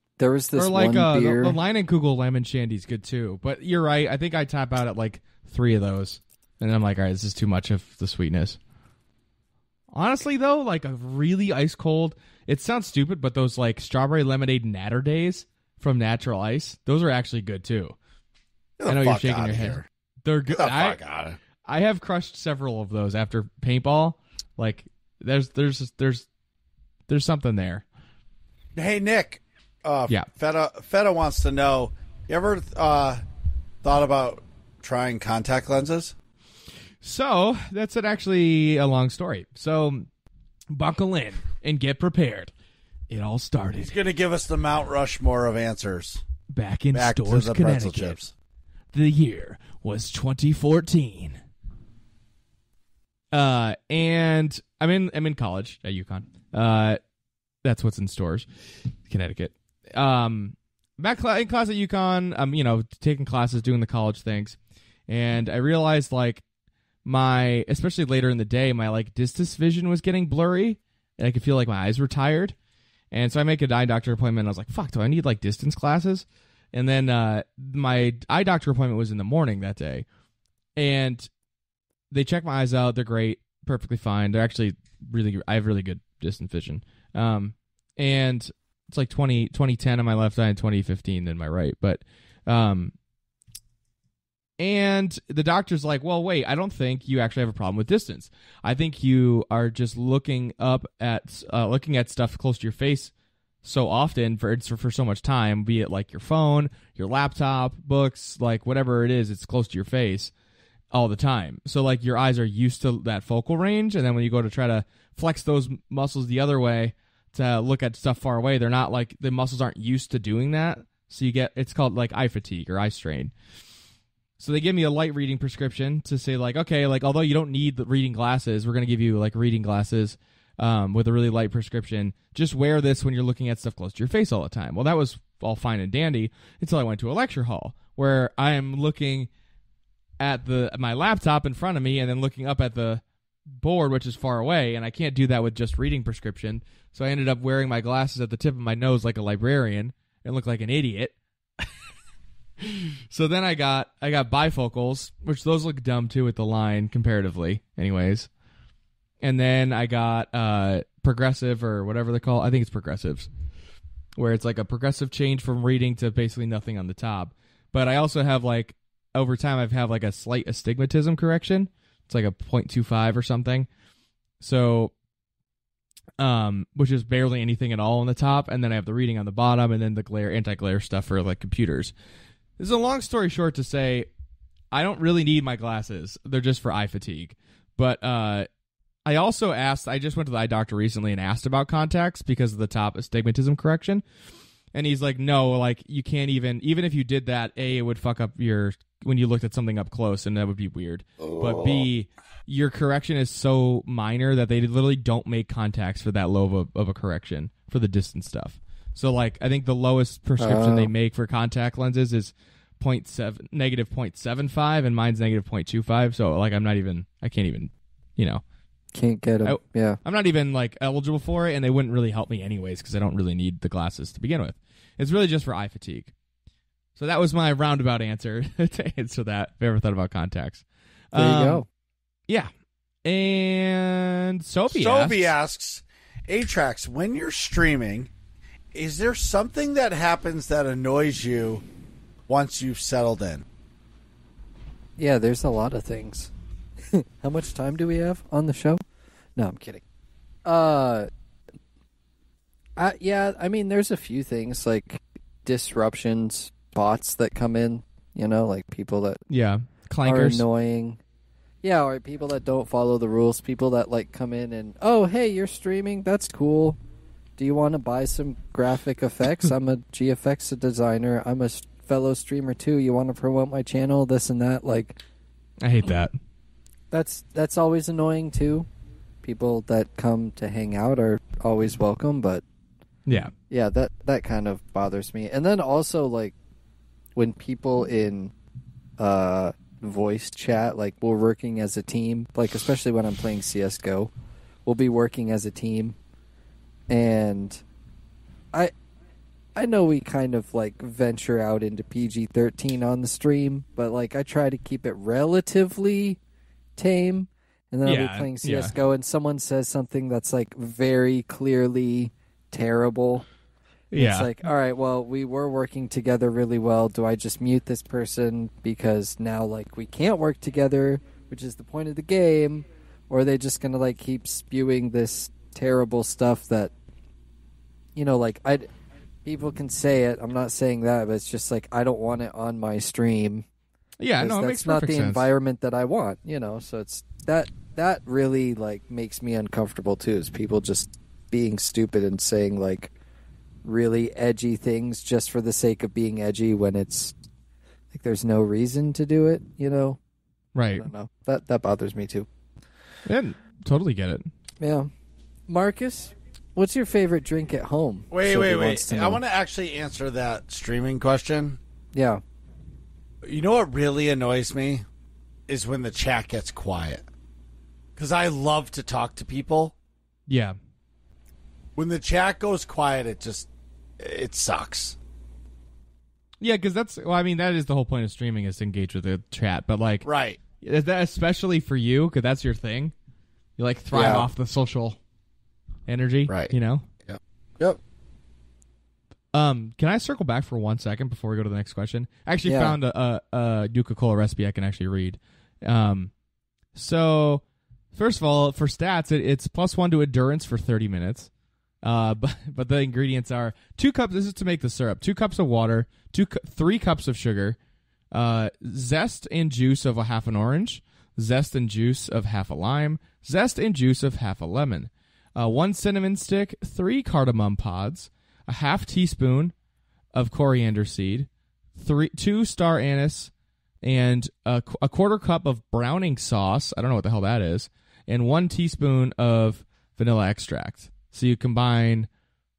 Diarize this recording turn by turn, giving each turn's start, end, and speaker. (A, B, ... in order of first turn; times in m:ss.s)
0:00.2-0:01.6 A
0:00.6-0:08.6 B
0:09.9-0:17.9 B
0:18.8-0:19.8 C
0:18.8-0:21.0 B
0:20.5-0:21.4 C
0:21.6-0:26.3 B
0:27.1-0:27.8 B
0:28.8-0:33.2 C
0:33.8-0:36.1 C
0:37.0-0:40.1 B
0:40.7-0:42.5 B
0:43.1-0:43.9 B
0:43.8-0:46.2 C
0:46.5-0:48.2 B
0:46.9-0:48.3 C
0:48.9-0:51.4 B
0:53.3-0:57.0 B
0:57.6-0:58.4 B
0:59.0-1:06.4 B
1:07.0-1:12.5 B
1:13.1-1:20.0 B
1:20.8-1:21.3 B
1:22.1-1:32.9 B
1:34.6-1:43.1 B
1:43.6-1:50.3 B
1:50.9-2:03.3 B
2:04.4-2:19.3 B
2:20.2-2:23.0 B
2:23.6-2:31.7 B
2:32.6-2:38.3 B
2:39.2-2:43.3 B
2:44.2-2:53.7 B
2:54.4-2:54.9 B
2:56.2-3:01.9 B
3:02.6-3:04.1 B
3:04.7-3:08.5 B
3:09.0-3:14.0 B
3:14.7-3:38.4 B
3:30.4-3:30.9 A
3:38.9-3:40.0 A
3:39.4-3:46.1 B
3:47.0-3:51.6 B
3:51.1-3:51.6 A
3:53.0-3:55.3 B
3:54.7-3:58.1 C
3:58.7-4:01.6 C
4:02.3-4:03.4 C
4:05.0-4:06.3 A
4:06.9-4:08.8 A
4:09.4-4:09.8 A
4:10.4-4:11.1 A
4:12.8-4:19.2 A
4:19.3-4:20.4 B
4:20.0-4:21.0 A
4:21.6-4:26.8 A
4:27.4-4:35.0 A
4:35.6-4:36.1 B
4:36.9-4:38.7 A
4:39.2-4:42.4 A
4:43.1-4:43.3 B
4:43.5-4:46.3 A
4:47.2-4:48.3 A
4:49.0-4:54.1 A
4:54.6-4:56.0 A
4:56.9-4:57.6 A
4:59.6-5:06.2 A
5:06.8-5:13.2 A
5:07.8-5:08.7 B
5:13.9-5:14.3 B
5:13.9-5:26.7 A
5:28.0-5:28.7 A
5:29.2-5:33.4 A
5:34.0-5:35.3 B
5:34.2-5:42.9 A
5:43.6-5:47.1 A
5:47.9-5:50.0 A
5:50.5-5:50.9 B
5:50.8-5:52.3 A
5:53.1-5:54.3 B
5:54.6-5:54.9 A
5:55.5-5:59.2 A
5:58.1-6:01.6 C
6:01.9-6:02.2 A
6:03.2-6:04.8 C
6:05.5-6:07.0 C
6:08.0-6:09.7 C
6:10.3-6:10.6 B
6:11.8-6:13.5 C
6:14.0-6:15.0 C
6:16.4-6:20.1 B
6:20.0-6:20.4 C
6:20.6-6:22.9 B
6:23.6-6:25.0 B
6:23.9-6:24.3 A
6:25.9-6:26.8 B
6:26.3-6:26.5 C
6:27.0-6:27.8 C
6:29.3-6:36.1 B
6:32.4-6:32.8 A
6:36.7-6:37.4 B
6:37.9-6:41.3 B
6:41.8-6:47.6 B
6:48.1-6:59.5 B
7:00.1-7:03.3 B
7:03.8-7:12.1 B